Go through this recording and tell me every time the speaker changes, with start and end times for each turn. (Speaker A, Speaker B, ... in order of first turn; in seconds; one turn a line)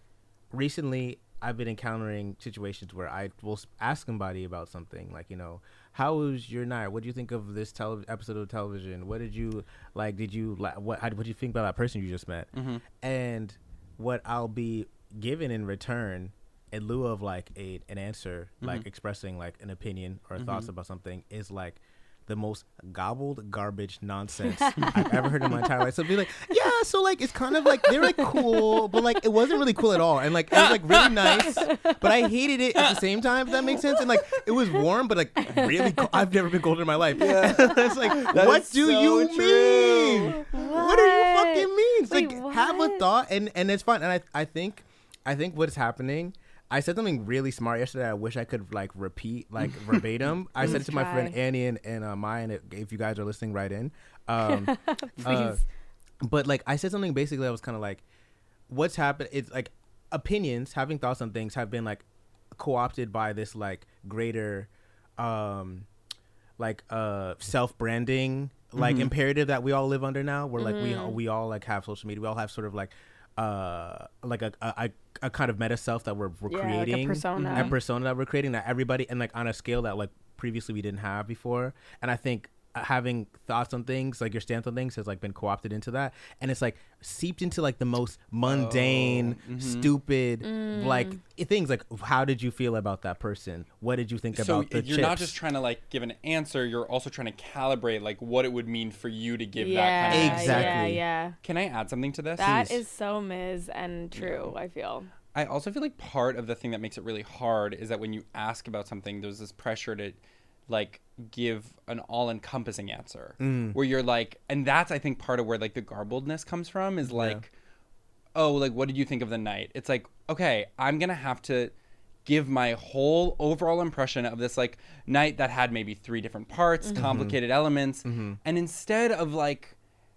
Speaker A: 0.5-55.6
Speaker B: 12.5-12.8
Speaker B: 20.4-20.7
Speaker C: 24.6-25.0
Speaker C: 27.8-28.6
Speaker B: 30.5-31.6
Speaker C: 31.6-32.0
Speaker C: 35.4-36.1
Speaker B: 37.1-40.5
Speaker C: 40.4-43.1
Speaker C: 50.6-51.4
Speaker C: 54.4-55.6
Speaker A: 56.2-58.0
Speaker A: 58.7-65.9
Speaker A: 66.6-95.4
Speaker B: 68.8-69.1
Speaker C: 70.6-71.2
Speaker C: 76.5-77.7
Speaker B: 77.4-77.8
Speaker B: 88.5-89.9
Speaker C: 90.4-91.2
Speaker B: 94.3-100.9
Speaker C: 99.6-101.4
Speaker A: 100.1-101.0
Speaker B: 101.4-102.7
Speaker C: 102.4-105.1
Speaker A: 102.4-102.8
Speaker B: 104.2-104.5
Speaker B: 105.3-117.5
Speaker A: 113.4-113.8
Speaker A: 117.1-117.4
Speaker B: 118.3-121.7
Speaker B: 122.2-129.8
Speaker A: 127.0-127.4
Speaker A: 128.0-128.4